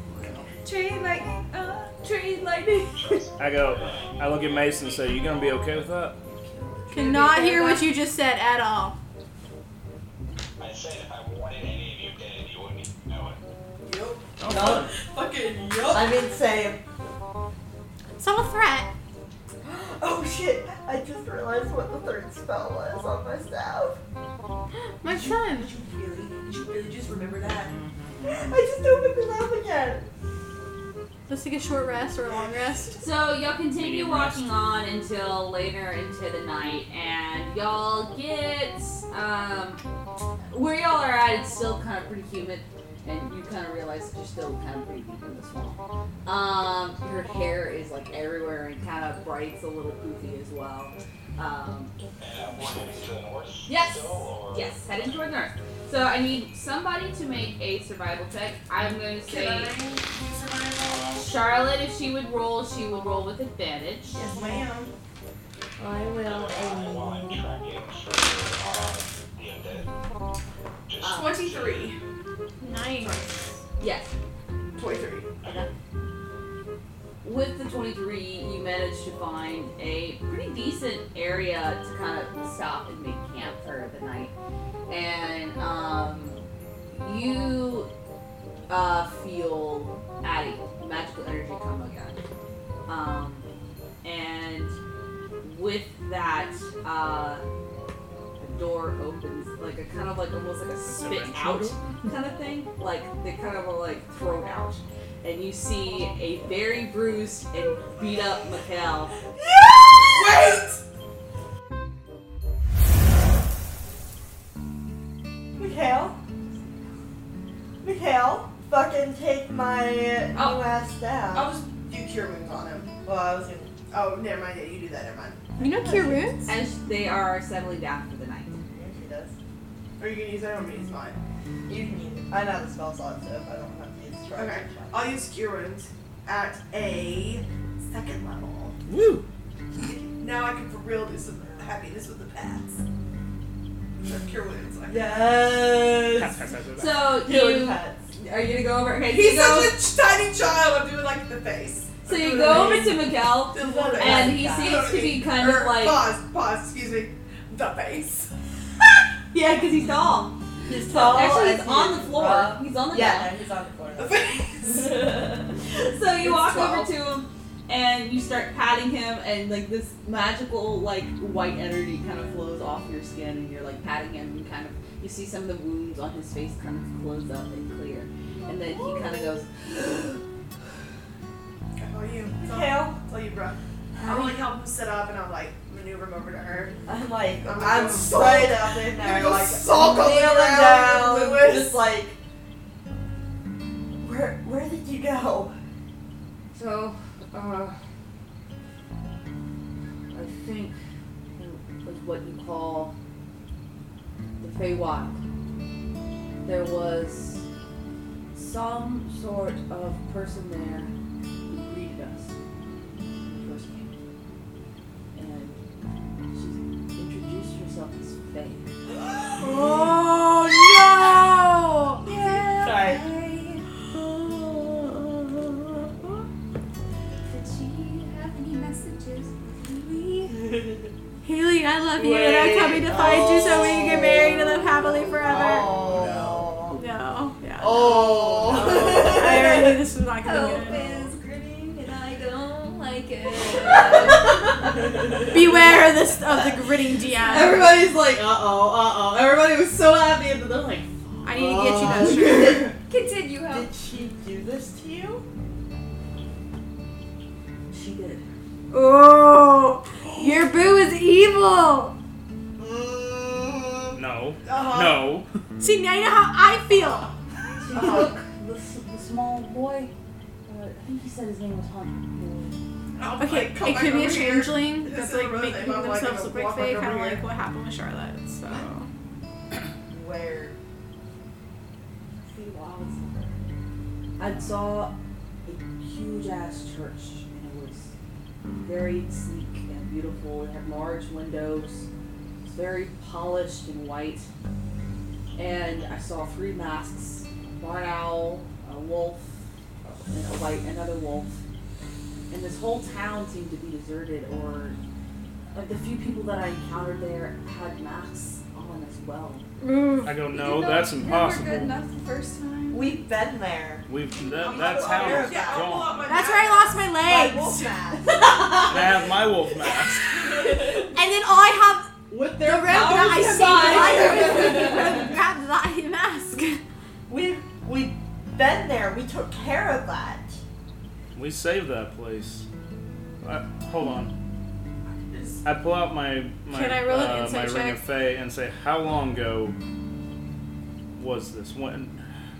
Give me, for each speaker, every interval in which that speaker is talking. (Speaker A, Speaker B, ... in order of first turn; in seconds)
Speaker A: 0.1-0.5, 6.2-7.0, 13.8-16.2, 25.0-27.7, 32.2-33.0, 59.2-61.3, 64.1-64.9, 71.0-72.0, 72.9-73.4, 74.7-75.4, 109.9-110.8, 121.3-122.9, 123.9-126.3, 130.0-131.2, 134.3-138.8, 139.9-142.8, 144.0-145.2, 149.1-158.3, 163.9-165.1, 181.8-186.8, 187.4-191.8, 264.4-265.1, 272.9-277.2, 314.5-316.9, 334.9-335.4
Speaker B: 0.6-3.2, 227.3-230.4, 240.2-244.4, 252.8-253.7, 310.2-313.0
Speaker C: 2.9-5.7, 10.6-13.4, 52.2-55.2, 66.2-69.9, 70.9-72.0
Speaker D: 3.4-6.2, 14.4-14.9, 27.5-28.5, 33.7-34.6, 100.8-102.0, 138.8-139.2, 146.1-147.1, 235.9-236.4, 263.9-265.3, 284.3-284.7, 310.0-311.8, 313.9-316.1, 318.6-320.2, 331.1-332.5, 333.2-334.1, 335.4-339.6, 340.9-342.0
Speaker E: 6.9-8.9, 18.2-18.9, 25.0-25.7, 31.3-33.0, 72.6-73.2, 125.6-126.5, 219.4-222.0, 231.2-235.8, 236.7-237.9, 238.4-241.1, 245.2-247.7, 251.2-252.7, 258.7-261.9, 265.6-267.1, 273.2-278.9, 309.6-310.2, 316.0-317.7, 320.4-326.6, 336.5-337.9
Speaker F: 7.0-7.8, 33.0-39.8, 40.5-51.9, 53.6-59.8, 61.1-64.2, 71.0-71.4, 73.8-74.1, 77.2-84.3, 84.9-87.9, 88.7-92.2, 92.9-93.5, 94.0-94.8, 95.4-97.4, 98.4-109.1, 116.5-116.8, 120.3-120.6, 126.4-128.6, 146.8-149.8, 152.0-156.1, 159.3-160.3, 160.9-163.3, 165.7-179.5, 184.0-184.4, 196.5-197.8, 200.1-200.8, 201.4-202.9, 204.4-205.2, 206.4-207.4, 208.3-210.9, 211.4-212.3, 213.2-213.9, 215.1-215.6, 216.3-218.7, 222.0-223.7, 247.3-252.1, 257.7-258.3, 267.6-269.9, 270.4-272.6, 282.2-283.4, 284.2-284.9, 285.4-287.9, 288.6-291.9, 292.4-294.3, 295.4-301.4, 302.3-304.8, 305.5-309.4, 322.1-325.1
Speaker G: 14.5-14.9, 15.8-16.8, 19.6-24.0, 28.2-30.0, 64.3-64.7, 65.8-67.4, 115.6-116.2, 117.8-121.5, 123.0-123.7, 128.7-129.3, 131.7-135.1, 144.8-146.4, 147.2-148.1, 152.4-152.9, 153.5-155.0, 160.7-164.2, 166.2-166.9, 182.4-183.0, 186.8-192.2, 194.0-195.5, 219.4-220.0, 222.1-223.0, 231.9-236.8, 237.6-239.6, 244.7-245.1, 247.3-247.7, 251.2-252.7, 253.4-255.2, 262.6-264.0, 267.7-268.1, 279.9-280.6, 312.7-315.9, 317.0-318.7, 323.5-324.8, 327.1-330.4